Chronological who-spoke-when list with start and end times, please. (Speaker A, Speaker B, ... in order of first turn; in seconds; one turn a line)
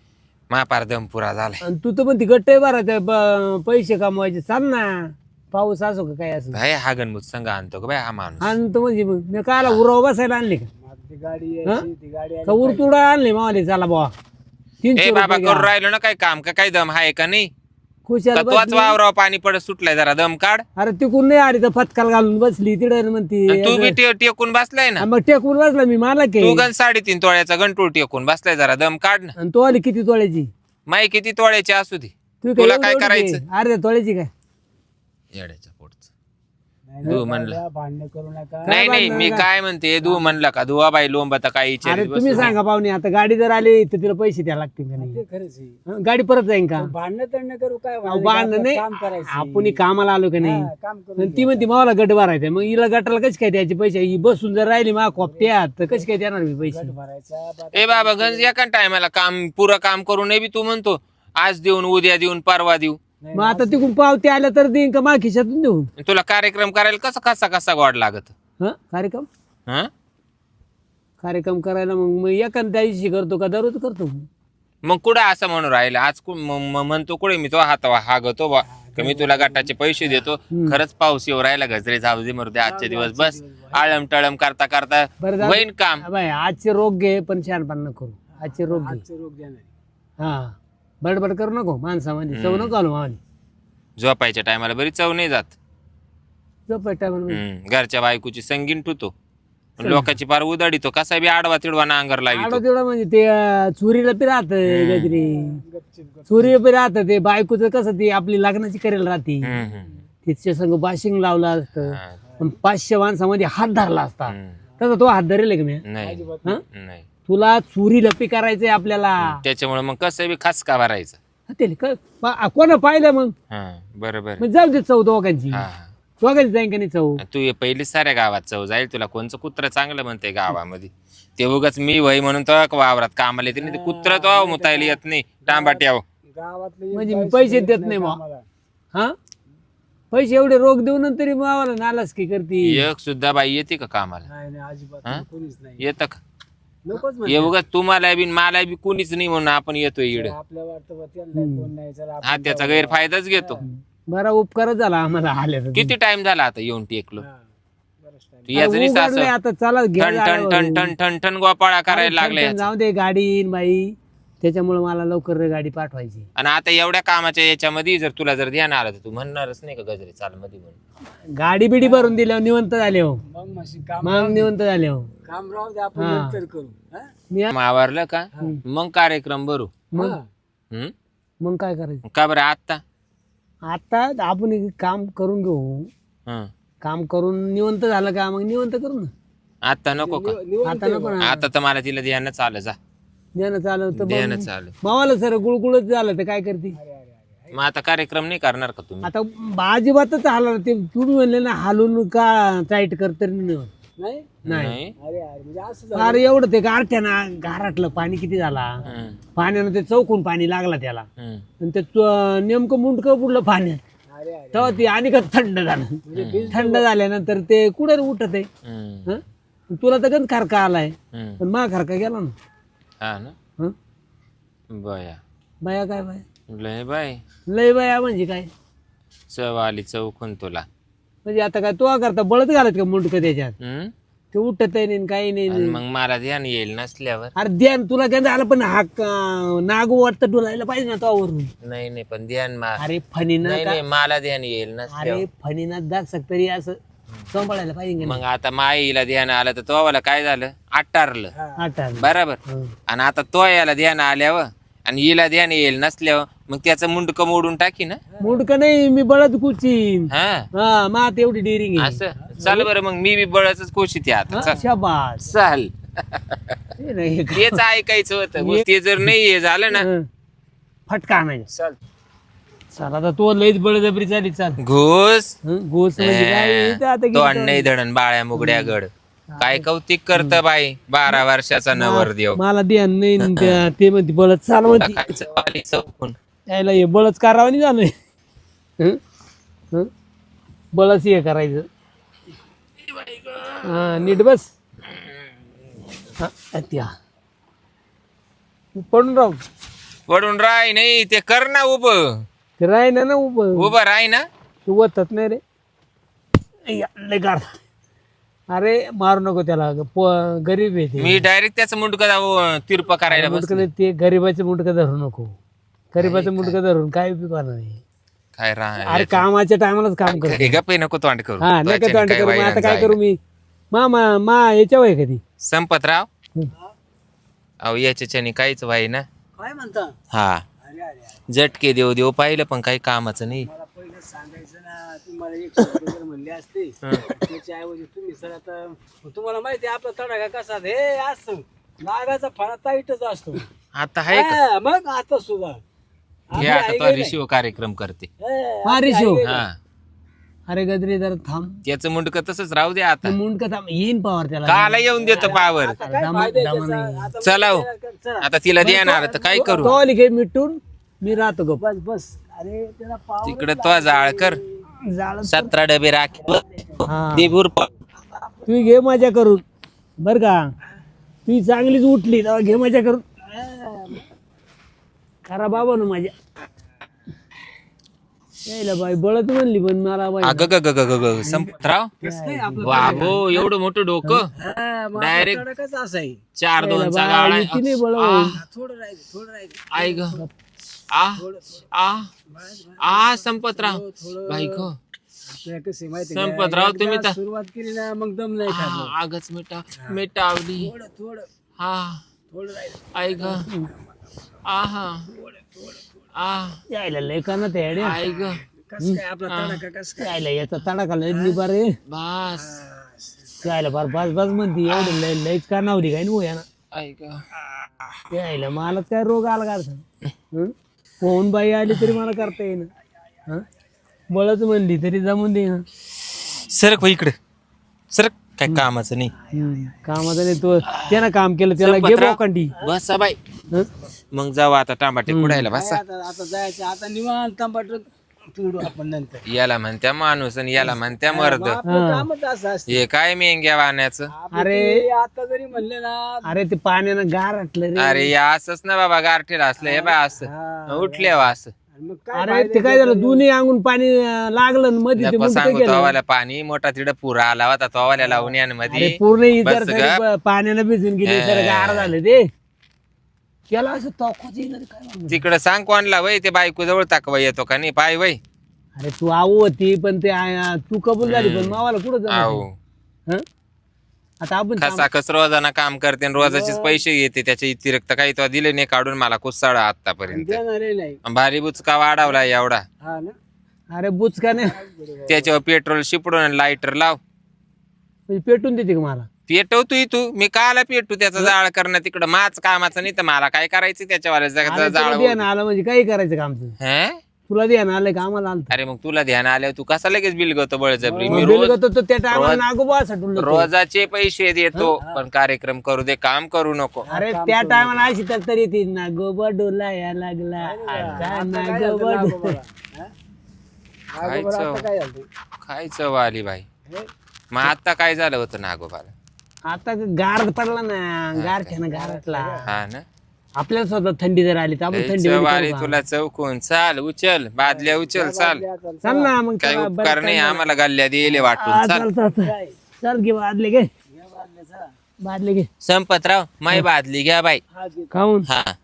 Speaker A: 0.5-1.6
Speaker B: 1.6-6.6
Speaker A: 6.5-8.6
Speaker B: 8.4-10.7
Speaker C: 10.8-12.9
Speaker B: 12.4-14.1
Speaker B: 14.8-15.7
Speaker A: 14.9-17.5
Speaker B: 18.1-19.0
Speaker A: 18.3-20.7
Speaker B: 20.8-24.0
Speaker A: 23.5-25.1
Speaker B: 25.0-26.7
Speaker A: 26.4-29.3
Speaker B: 29.4-30.5
Speaker A: 30.9-33.4
Speaker B: 32.4-34.3
Speaker A: 35.3-36.1
Speaker C: 36.9-39.1
Speaker A: 37.1-37.6
Speaker A: 38.7-42.5
Speaker B: 38.7-39.5
Speaker C: 40.0-40.3
Speaker B: 41.8-45.2
Speaker C: 45.0-45.8
Speaker B: 45.9-46.9
Speaker C: 46.8-49.8
Speaker B: 48.1-56.9
Speaker C: 50.4-51.7
Speaker C: 55.1-56.0
Speaker C: 56.7-58.5
Speaker A: 57.7-63.0
Speaker C: 63.2-63.9
Speaker B: 63.3-65.9
Speaker A: 66.0-68.3
Speaker B: 68.6-69.3
Speaker B: 71.2-74.3
Speaker A: 74.8-86.0
Speaker C: 78.7-80.2
Speaker C: 82.6-84.0
Speaker B: 85.2-89.0
Speaker C: 88.3-89.7
Speaker B: 90.2-93.2
Speaker A: 92.3-92.8
Speaker A: 94.0-95.6
Speaker B: 96.7-97.4
Speaker A: 97.3-99.1
Speaker A: 99.8-102.6
Speaker B: 102.3-105.6
Speaker A: 104.6-105.2
Speaker C: 105.1-106.6
Speaker B: 106.3-109.5
Speaker A: 109.4-110.0
Speaker B: 110.2-115.8
Speaker A: 111.8-112.1
Speaker A: 114.3-114.5
Speaker A: 115.9-117.0
Speaker C: 116.0-116.6
Speaker B: 117.3-119.4
Speaker A: 119.2-121.2
Speaker B: 121.5-123.3
Speaker A: 123.5-124.4
Speaker B: 124.4-125.7
Speaker A: 125.5-125.9
Speaker B: 126.2-127.2
Speaker A: 127.2-136.0
Speaker C: 133.6-138.4
Speaker B: 136.9-138.2
Speaker B: 140.1-142.9
Speaker A: 142.6-144.2
Speaker C: 144.2-145.9
Speaker A: 145.8-146.2
Speaker C: 146.8-147.5
Speaker A: 147.2-150.3
Speaker C: 150.1-153.6
Speaker B: 151.3-151.7
Speaker A: 152.2-153.6
Speaker B: 153.7-155.9
Speaker A: 155.7-157.2
Speaker C: 158.0-158.6
Speaker A: 158.5-159.3
Speaker B: 158.5-160.9
Speaker A: 160.0-162.7
Speaker B: 161.9-166.2
Speaker A: 166.3-170.8
Speaker B: 171.4-173.2
Speaker C: 171.8-172.2
Speaker C: 173.2-174.5
Speaker B: 174.0-175.1
Speaker C: 175.2-177.1
Speaker B: 176.0-176.4
Speaker A: 177.5-179.7
Speaker C: 179.9-180.3
Speaker B: 181.4-182.0
Speaker A: 182.0-182.8
Speaker B: 183.7-185.9
Speaker B: 186.8-189.1
Speaker A: 189.7-190.4
Speaker C: 190.0-191.2
Speaker B: 190.7-191.5
Speaker A: 191.2-192.8
Speaker B: 193.4-196.8
Speaker A: 193.9-194.7
Speaker C: 196.7-197.6
Speaker A: 197.5-199.1
Speaker B: 199.0-203.7
Speaker C: 204.0-204.4
Speaker A: 204.4-204.9
Speaker B: 204.5-204.8
Speaker C: 204.9-206.3
Speaker B: 205.9-208.7
Speaker A: 208.8-209.2
Speaker B: 209.3-211.1
Speaker A: 211.2-211.4
Speaker B: 211.6-213.8
Speaker C: 214.1-214.7
Speaker B: 214.5-216.0
Speaker C: 216.0-216.8
Speaker A: 216.2-216.6
Speaker B: 216.5-218.5
Speaker A: 218.7-219.1
Speaker B: 219.7-222.3
Speaker A: 221.1-221.4
Speaker A: 223.0-223.3
Speaker A: 224.7-225.2
Speaker B: 225.7-226.2
Speaker A: 226.5-227.2
Speaker B: 227.5-228.5
Speaker A: 229.3-230.7
Speaker B: 231.2-233.6
Speaker A: 233.6-233.9
Speaker B: 234.3-235.8
Speaker A: 235.5-237.3
Speaker B: 237.3-241.5
Speaker A: 241.6-242.8
Speaker B: 242.8-243.8
Speaker A: 243.4-245.2
Speaker B: 244.9-246.8
Speaker B: 247.3-248.2
Speaker A: 248.0-251.3
Speaker C: 251.3-251.6
Speaker B: 251.6-252.7
Speaker A: 252.0-258.0
Speaker C: 258.1-258.4
Speaker B: 258.2-262.7
Speaker A: 260.1-260.5
Speaker A: 261.8-264.6
Speaker B: 264.3-265.2
Speaker A: 265.2-266.6
Speaker B: 266.8-267.6
Speaker A: 267.3-269.9
Speaker B: 268.4-268.6
Speaker B: 269.8-270.1
Speaker B: 270.9-271.5
Speaker A: 271.5-271.8
Speaker B: 272.8-274.6
Speaker A: 274.6-275.4
Speaker B: 275.5-277.7
Speaker A: 276.0-282.4
Speaker B: 278.4-278.8
Speaker B: 279.3-279.6
Speaker B: 280.1-280.4
Speaker B: 281.7-285.0
Speaker A: 283.2-283.6
Speaker A: 284.8-286.1
Speaker B: 286.5-287.9
Speaker B: 290.8-291.7
Speaker A: 293.1-293.6
Speaker B: 293.6-294.5
Speaker B: 296.2-296.9
Speaker B: 298.8-299.4
Speaker A: 300.1-302.2
Speaker B: 302.6-303.7
Speaker A: 303.5-304.2
Speaker B: 304.6-305.4
Speaker B: 306.7-307.6
Speaker B: 308.5-311.2
Speaker A: 311.0-313.7
Speaker B: 313.1-315.3
Speaker B: 315.9-317.8
Speaker A: 316.0-316.6
Speaker A: 318.4-319.2
Speaker B: 318.8-320.6
Speaker A: 320.1-323.0
Speaker B: 321.4-323.2
Speaker B: 323.7-325.2
Speaker A: 325.4-326.1
Speaker A: 327.6-329.1
Speaker C: 329.4-330.0
Speaker A: 330.1-330.4
Speaker C: 330.6-331.2
Speaker A: 331.3-333.5
Speaker C: 333.4-343.5
Speaker A: 343.8-344.4
Speaker C: 344.1-345.6
Speaker C: 346.3-347.2
Speaker A: 346.4-348.1
Speaker C: 348.2-349.5
Speaker B: 348.6-349.2
Speaker A: 349.2-349.6
Speaker B: 350.5-351.6
Speaker A: 351.6-353.2
Speaker B: 353.0-357.1
Speaker A: 354.4-355.8
Speaker C: 355.0-359.8
Speaker A: 357.2-357.6
Speaker A: 358.2-359.7
Speaker B: 359.3-361.6
Speaker C: 361.6-364.6
Speaker A: 363.2-364.4
Speaker B: 364.9-365.5
Speaker A: 365.2-367.7
Speaker B: 366.9-367.4
Speaker B: 368.5-369.4
Speaker B: 370.0-370.4
Speaker B: 371.2-373.0
Speaker C: 373.2-374.1
Speaker B: 375.2-376.1
Speaker B: 378.5-380.5
Speaker A: 380.2-381.9
Speaker B: 381.2-381.5
Speaker C: 382.0-383.3
Speaker B: 382.0-383.4
Speaker A: 382.6-384.3
Speaker C: 384.3-386.2
Speaker A: 385.0-385.4
Speaker A: 386.4-388.4
Speaker B: 386.6-388.4
Speaker C: 388.2-390.2
Speaker A: 389.7-390.2
Speaker A: 390.9-392.1
Speaker C: 391.1-391.6
Speaker C: 392.3-394.7
Speaker A: 392.8-394.8
Speaker C: 395.2-398.9
Speaker A: 396.1-397.2
Speaker A: 398.5-400.7
Speaker C: 400.6-401.3
Speaker A: 401.6-402.0
Speaker C: 402.3-403.5
Speaker A: 402.9-403.5
Speaker B: 403.4-403.7
Speaker A: 404.4-405.1
Speaker C: 405.6-405.8
Speaker A: 406.1-406.6
Speaker B: 406.7-408.1
Speaker A: 407.7-408.4
Speaker C: 408.1-410.2
Speaker A: 409.3-409.6
Speaker B: 410.0-411.7
Speaker C: 411.1-411.4
Speaker A: 411.9-412.6
Speaker C: 412.4-413.4
Speaker B: 413.4-416.5
Speaker A: 416.7-417.2
Speaker B: 418.1-422.7
Speaker B: 424.1-425.6
Speaker A: 426.2-427.1
Speaker A: 427.9-429.1
Speaker B: 429.3-432.5
Speaker A: 430.6-431.1
Speaker A: 431.6-433.2
Speaker A: 434.1-435.8
Speaker B: 435.1-435.5
Speaker C: 435.5-439.2
Speaker A: 439.3-441.6
Speaker C: 441.1-442.9
Speaker B: 441.6-442.1
Speaker A: 442.7-444.1
Speaker C: 444.1-446.3
Speaker B: 444.3-444.8
Speaker B: 446.2-448.1
Speaker A: 447.8-451.5
Speaker C: 449.6-453.2
Speaker B: 452.1-456.0
Speaker A: 455.0-460.0
Speaker C: 458.0-458.4
Speaker B: 458.7-462.2
Speaker A: 461.1-461.9
Speaker B: 463.5-465.2
Speaker A: 465.1-468.2
Speaker B: 468.8-472.4
Speaker A: 471.0-471.6
Speaker A: 472.1-472.6
Speaker B: 474.2-474.9
Speaker A: 474.6-480.4
Speaker C: 476.2-476.8
Speaker C: 480.1-481.0
Speaker A: 481.1-482.6
Speaker C: 482.8-483.2
Speaker B: 483.7-484.5
Speaker C: 484.4-485.4
Speaker A: 485.1-487.0
Speaker B: 488.1-489.1
Speaker A: 489.3-495.2
Speaker B: 494.4-496.5
Speaker A: 496.6-497.0
Speaker B: 497.3-498.5
Speaker A: 498.5-501.6
Speaker C: 500.8-501.3
Speaker B: 501.0-503.5
Speaker A: 502.1-502.4
Speaker A: 503.1-506.9
Speaker C: 504.8-505.0
Speaker C: 506.8-507.9
Speaker B: 506.9-512.4
Speaker C: 510.4-512.9
Speaker A: 510.8-511.1
Speaker C: 513.9-515.1
Speaker A: 514.0-514.7
Speaker A: 515.4-516.5
Speaker A: 517.3-518.9
Speaker B: 519.5-522.5
Speaker A: 521.1-521.5
Speaker C: 521.7-522.5
Speaker A: 522.5-522.9
Speaker B: 523.4-525.8
Speaker A: 524.7-528.4
Speaker C: 527.4-529.2
Speaker B: 528.8-530.5
Speaker A: 529.4-531.9
Speaker B: 531.2-533.7
Speaker C: 532.1-532.7
Speaker C: 533.9-534.7
Speaker B: 535.0-535.5
Speaker A: 535.6-537.4
Speaker C: 537.5-537.9
Speaker B: 537.9-538.3
Speaker A: 538.2-538.6